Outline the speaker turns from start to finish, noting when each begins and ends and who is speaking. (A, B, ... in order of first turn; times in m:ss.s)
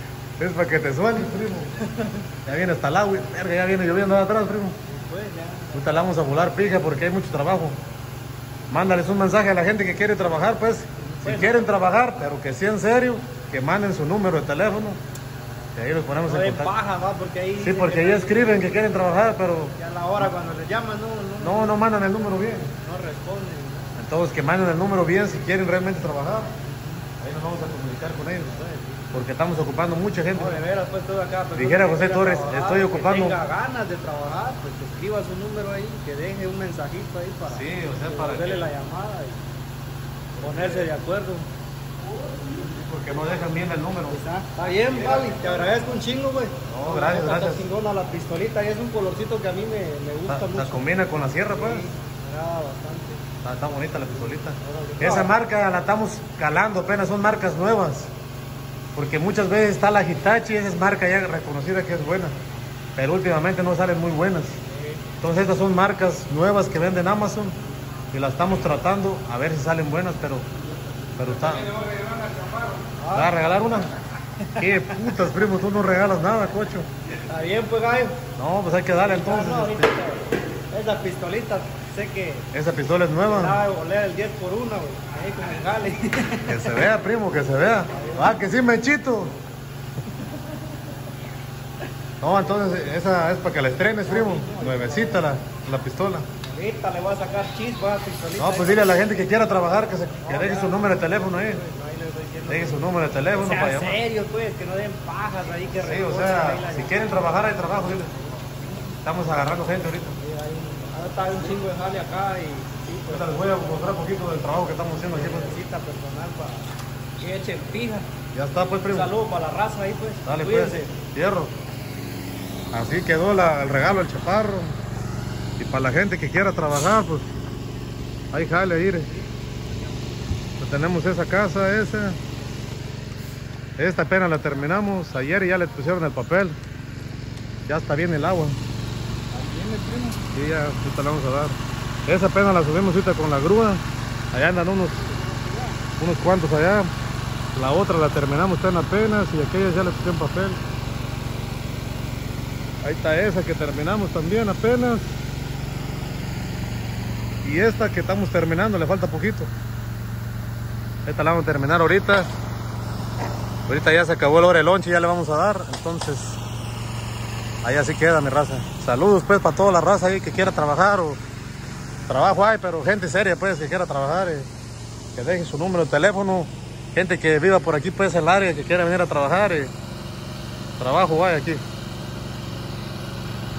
0:00.4-0:01.7 A
0:01.8-0:02.1 B
0:02.4-0:04.8 A
0:04.9-0:06.0 B
0:05.7-0:07.8 A
0:08.7-0:15.0 A
0:11.0-0:11.7 B
0:15.8-0:16.7 A
0:16.2-0:19.0 B
0:17.6-0:19.8 A
0:19.7-0:23.9 B
0:21.4-0:22.7 A
0:24.0-0:26.5 A
0:26.6-0:27.0 B
0:27.2-0:28.6 A
0:28.4-0:29.1 B
0:29.1-0:30.6 A
0:30.3-0:39.5 B
0:31.6-0:33.4 A
0:37.5-0:38.7 A
0:40.4-0:40.9 A
0:40.4-0:41.5 B
0:42.5-0:44.2 A
0:44.1-0:50.9 B
0:45.0-0:45.4 A
0:46.7-0:47.6 A
0:50.3-0:51.8 A
0:51.5-0:53.2 B
0:53.4-0:58.1 A
0:54.6-0:55.4 B
0:59.0-1:02.4 A
1:03.0-1:04.6 A
1:04.7-1:05.0 B
1:05.2-1:07.6 A
1:08.1-1:10.5 A
1:11.2-1:11.8 A
1:11.8-1:13.4 B
1:13.1-1:13.9 A
1:14.5-1:15.0 B
1:14.6-1:16.9 A
1:17.2-1:18.2 B
1:18.4-1:20.0 A
1:19.0-1:22.5 B
1:22.5-1:23.6 A
1:23.2-1:26.9 B
1:26.5-1:29.4 A
1:27.9-1:28.4 B
1:32.2-1:36.3 A
1:34.0-1:35.4 B
1:36.4-1:39.1 B
1:38.4-1:41.6 A
1:40.2-1:48.6 B
1:42.5-1:44.0 A
1:45.8-1:48.2 A
1:49.0-1:50.2 A
1:50.2-1:53.3 B
1:53.1-1:55.5 A
1:55.1-1:58.1 B
1:58.4-1:59.1 A
1:58.8-2:01.0 B
2:00.2-2:01.5 A
2:02.7-2:04.8 A
2:05.6-2:07.3 A
2:08.3-2:09.1 A
2:10.6-2:12.2 A
2:13.8-2:16.6 A
2:17.7-2:18.6 A
2:19.3-2:20.2 B
2:20.2-2:23.8 A
2:24.3-2:25.1 A
2:24.9-2:25.8 B
2:26.0-2:26.9 A
2:27.6-2:30.6 A
2:32.8-2:35.2 A
2:37.4-2:39.5 A
2:41.1-2:42.3 A
2:43.7-2:46.4 A
2:47.6-2:51.2 A
2:52.1-2:54.5 A
2:55.2-2:59.7 A
3:00.8-3:01.6 A